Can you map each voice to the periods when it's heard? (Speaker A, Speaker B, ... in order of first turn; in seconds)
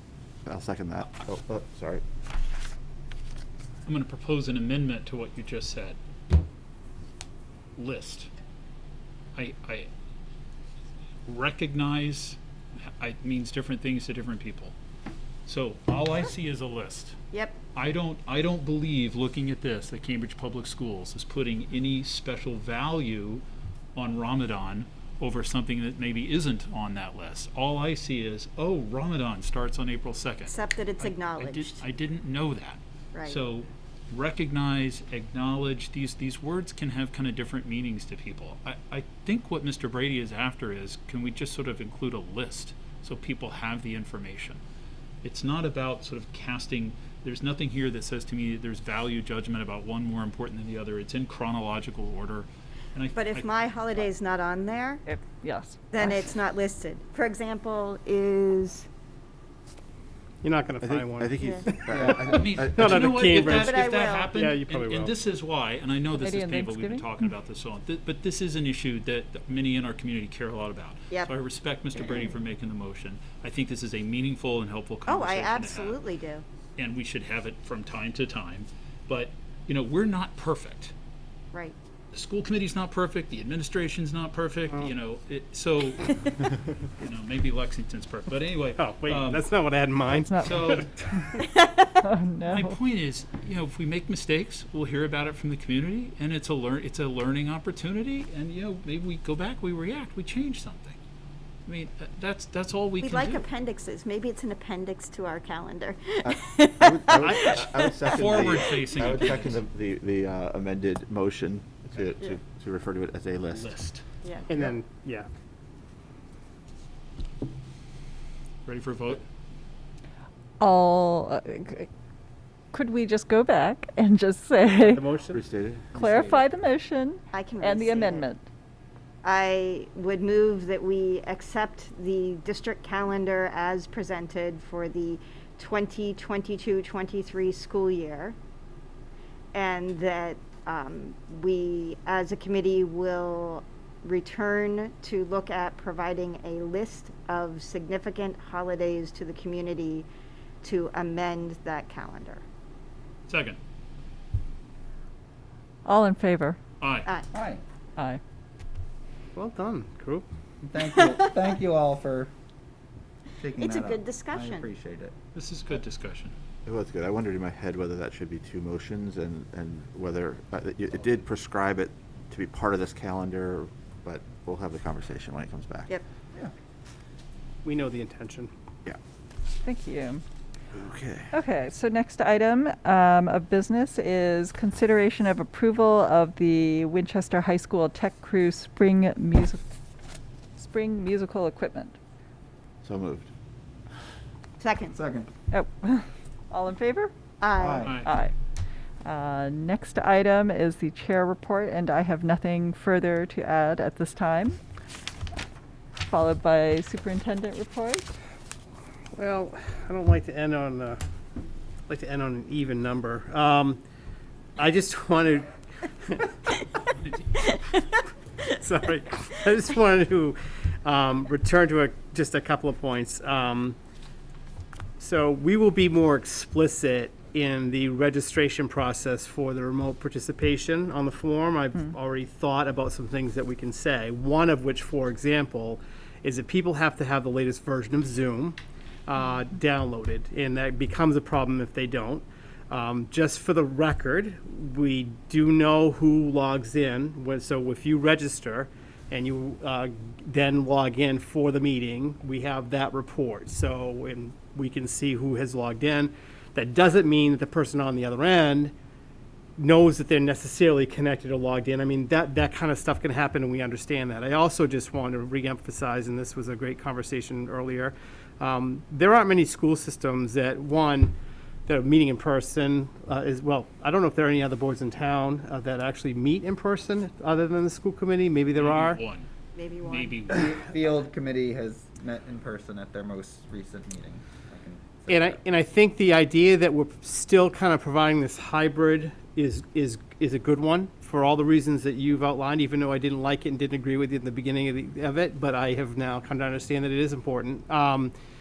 Speaker A: 0.5-2.0, 60.8-63.3, 106.2-113.7, 125.3-126.1, 166.7-175.9, 180.7-181.3, 192.8-193.3
Speaker B: 3.9-6.0, 7.8-8.3, 9.3-9.9, 11.3-14.8, 15.5-17.2, 17.8-23.4, 23.9-44.6, 45.2-53.5, 62.3-76.0, 76.8-80.9, 82.1-86.4, 87.0-89.5, 90.4-90.9, 92.5-101.0, 101.7-103.5, 108.1-109.7, 113.5-114.0, 118.7-119.3, 153.3-153.6, 156.8-157.1, 165.3-166.3, 197.8-198.1, 217.0-217.4, 278.6-279.3, 279.8-280.9
Speaker C: 17.3-17.6, 30.5-31.8, 33.1-33.4, 53.1-55.0, 55.9-58.9, 61.4-61.7, 63.5-64.3, 72.0-72.3, 75.1-76.4, 86.1-86.4, 91.4-92.0, 103.0-108.5, 127.3-128.3, 129.2-138.4, 139.5-150.1, 150.6-152.4, 163.6-164.7, 194.6-195.0, 197.4-197.9, 279.5-280.2
Speaker D: 55.1-56.2, 66.2-67.3, 90.2-90.7, 92.0-92.8, 120.6-121.9, 122.7-125.0, 125.9-128.4, 155.9-156.6, 179.6-180.2, 181.3-189.6, 190.6-192.0, 195.5-197.1, 198.0-198.3, 199.1-204.6, 206.0-208.1
Speaker E: 60.4-65.2, 88.8-91.4, 114.5-115.3, 124.8-125.4, 159.3-160.3, 177.6-178.5, 209.1-211.0, 211.9-213.8, 214.6-216.3, 218.4-223.8, 225.0-258.7, 259.6-271.1, 271.7-279.0, 285.1-298.1
Speaker F: 157.3-157.6, 160.6-162.3, 163.3-165.1, 194.9-195.3, 197.6-198.1, 280.3-285.4